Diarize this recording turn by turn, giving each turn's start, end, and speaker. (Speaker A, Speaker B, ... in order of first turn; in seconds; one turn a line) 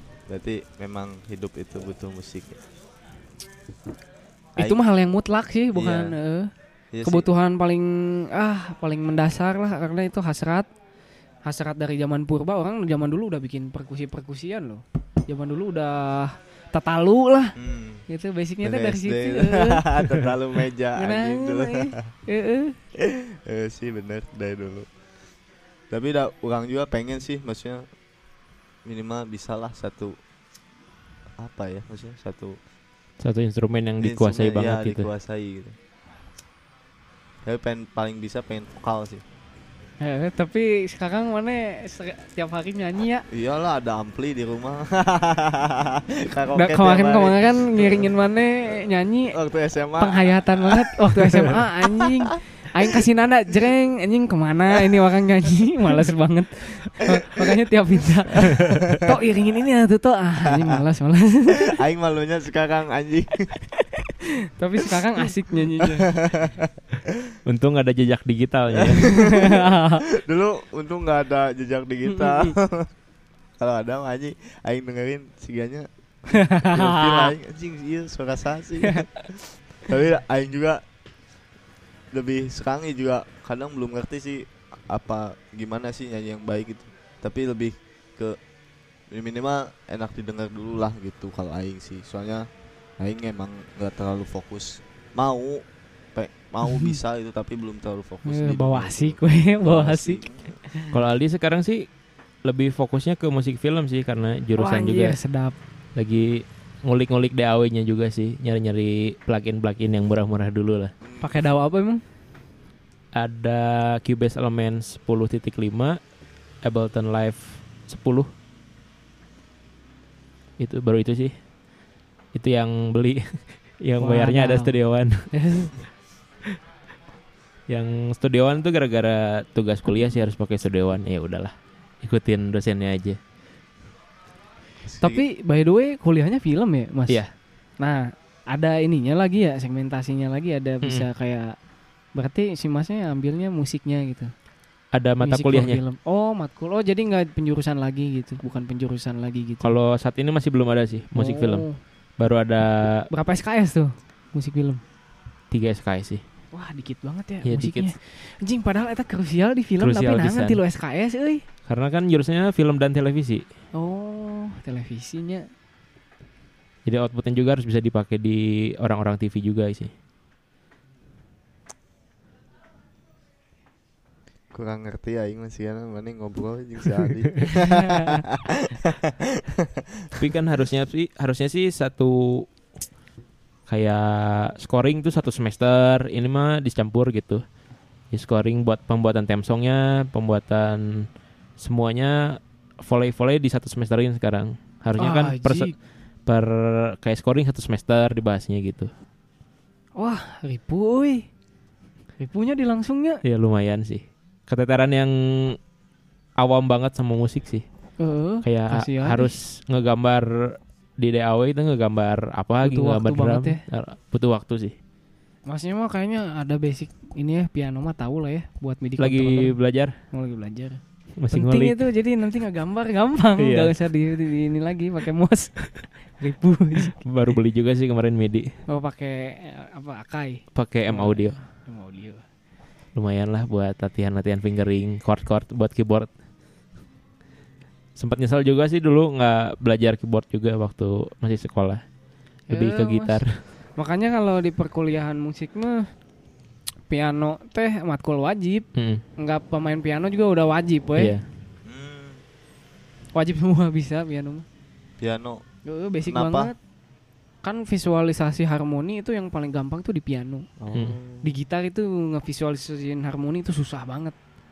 Speaker A: 0.3-2.6
Speaker B: 4.6-6.5
Speaker A: 5.7-6.1
Speaker A: 6.9-7.3
Speaker B: 7.0-10.7
Speaker B: 11.4-17.6
Speaker A: 17.6-18.0
Speaker B: 18.1-19.9
Speaker A: 18.6-22.1
Speaker B: 20.9-22.8
Speaker A: 23.0-24.9
Speaker A: 25.9-27.9
Speaker A: 28.8-30.1
Speaker A: 31.4-32.6
Speaker C: 33.2-35.1
Speaker A: 34.0-35.7
Speaker A: 37.4-39.2
Speaker B: 40.0-43.2
Speaker A: 43.3-48.1
Speaker B: 46.5-49.3
Speaker A: 49.3-52.4
Speaker B: 50.0-61.8
Speaker A: 57.0-57.5
Speaker A: 58.4-59.1
Speaker A: 60.5-60.8
Speaker A: 61.6-63.5
Speaker B: 64.6-66.1
Speaker A: 65.2-67.4
Speaker C: 67.5-69.3
Speaker A: 68.7-72.9
Speaker B: 69.0-70.0
Speaker B: 72.1-72.5
Speaker A: 73.6-75.9
Speaker B: 76.3-77.3
Speaker A: 76.5-80.8
Speaker B: 78.8-79.2
Speaker A: 82.1-88.4
Speaker A: 89.1-92.5
Speaker A: 93.0-95.6
Speaker A: 96.1-100.6
Speaker B: 96.7-97.0
Speaker B: 98.2-100.9
Speaker C: 100.9-101.9
Speaker C: 102.4-105.2
Speaker B: 104.6-105.5
Speaker C: 105.9-110.9
Speaker A: 111.0-111.3
Speaker B: 111.2-112.0
Speaker C: 113.1-116.0
Speaker C: 116.6-118.3
Speaker C: 120.6-121.3
Speaker C: 122.3-125.3
Speaker B: 124.0-124.7
Speaker B: 125.3-125.7
Speaker C: 127.7-133.2
Speaker A: 134.8-135.2
Speaker B: 135.0-137.2
Speaker B: 137.8-141.6
Speaker B: 142.1-144.3
Speaker C: 144.9-145.8
Speaker B: 145.2-149.7
Speaker C: 149.6-151.7
Speaker B: 151.1-151.8
Speaker C: 152.2-153.1
Speaker B: 153.1-154.8
Speaker C: 155.5-156.2
Speaker B: 156.5-161.4
Speaker C: 157.4-157.9
Speaker C: 159.8-160.6
Speaker C: 161.7-163.4
Speaker B: 163.7-165.4
Speaker C: 166.8-169.9
Speaker A: 174.5-180.2
Speaker B: 177.7-178.2
Speaker C: 180.2-182.5
Speaker C: 183.7-187.4
Speaker C: 188.1-191.1
Speaker C: 191.6-195.7
Speaker B: 195.0-195.7
Speaker C: 196.2-198.9
Speaker B: 200.0-201.3
Speaker B: 202.2-203.2
Speaker C: 203.2-205.6
Speaker C: 206.4-207.6
Speaker B: 208.0-209.4
Speaker C: 208.4-214.7
Speaker B: 212.6-213.6
Speaker B: 215.5-219.5
Speaker C: 219.0-219.9
Speaker B: 220.1-220.8
Speaker C: 221.2-221.8
Speaker B: 221.3-227.0
Speaker C: 223.4-223.7
Speaker C: 227.0-228.6
Speaker B: 228.7-232.2
Speaker C: 230.5-231.3
Speaker C: 232.9-236.1
Speaker C: 238.0-241.8
Speaker B: 242.5-243.2
Speaker C: 242.5-243.4
Speaker B: 243.8-245.9
Speaker B: 246.9-248.7
Speaker C: 248.7-249.0
Speaker B: 249.2-251.1
Speaker C: 251.0-251.2
Speaker A: 251.6-252.2
Speaker B: 253.1-254.4
Speaker A: 255.0-255.4
Speaker B: 255.7-256.6
Speaker A: 256.1-256.5
Speaker B: 257.4-260.5
Speaker A: 260.6-261.4
Speaker B: 261.2-264.1